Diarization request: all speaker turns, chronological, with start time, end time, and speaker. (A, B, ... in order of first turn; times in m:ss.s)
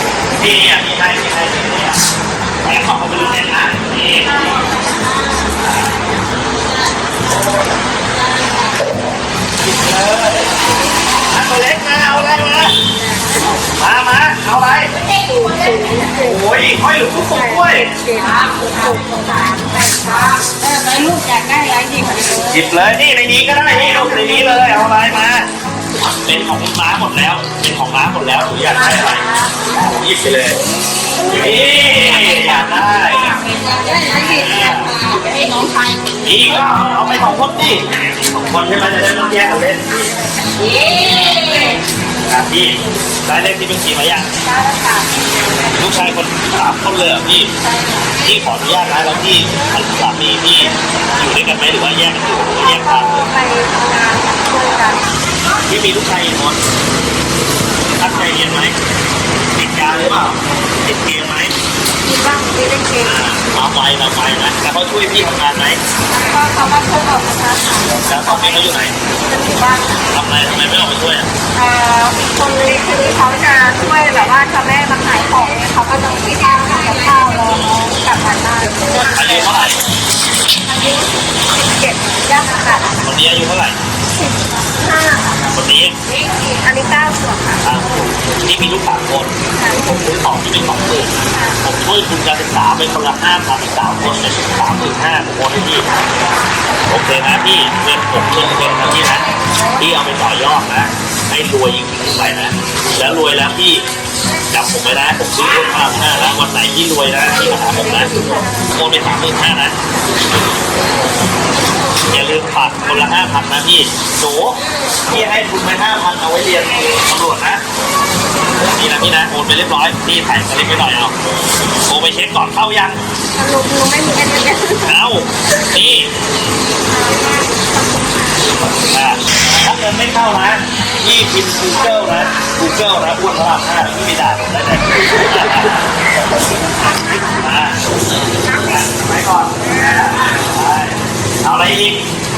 0:00.4-0:02.0 A
0:02.6-0:04.6 A
0:04.5-0:04.8 B
0:05.6-0:05.9 A
0:09.6-0:10.5 A
0:11.3-0:12.8 A
0:13.8-0:15.0 A
0:15.1-0:16.4 B
0:16.2-0:17.9 A
0:17.3-0:22.5 B
0:22.5-0:25.5 A
0:26.2-0:30.6 A
0:29.0-0:29.4 B
0:31.2-0:33.3 A
0:31.8-0:36.5 B
0:34.1-0:34.9 A
0:36.2-0:40.2 A
0:40.4-0:41.8 B
0:42.2-0:44.3 A
0:44.4-0:45.2 B
0:45.7-0:47.5 A
0:47.6-0:48.2 B
0:48.2-0:53.3 A
0:52.4-0:55.1 B
0:55.6-0:56.6 A
0:57.8-0:58.7 A
0:59.5-1:01.5 A
1:02.0-1:03.2 B
1:03.0-1:05.8 A
1:06.1-1:10.1 B
1:08.0-1:09.0 A
1:10.1-1:11.3 A
1:11.5-1:19.7 B
1:19.1-1:19.8 A
1:20.6-1:23.0 B
1:23.0-1:23.8 A
1:24.2-1:25.4 B
1:25.5-1:25.9 A
1:26.2-1:27.6 B
1:27.6-1:35.8 A
1:29.5-1:29.8 B
1:31.2-1:31.6 B
1:36.9-1:39.2 A
1:39.8-1:43.8 A
1:44.5-1:49.7 A
1:52.1-1:57.6 A
1:54.6-1:55.0 B
1:58.5-2:01.1 A
2:01.9-2:03.0 A
2:03.4-2:04.9 B
2:04.8-2:06.1 A
2:06.9-2:08.6 B
2:08.7-2:15.9 A
2:17.3-2:17.8 A
2:18.5-2:22.0 A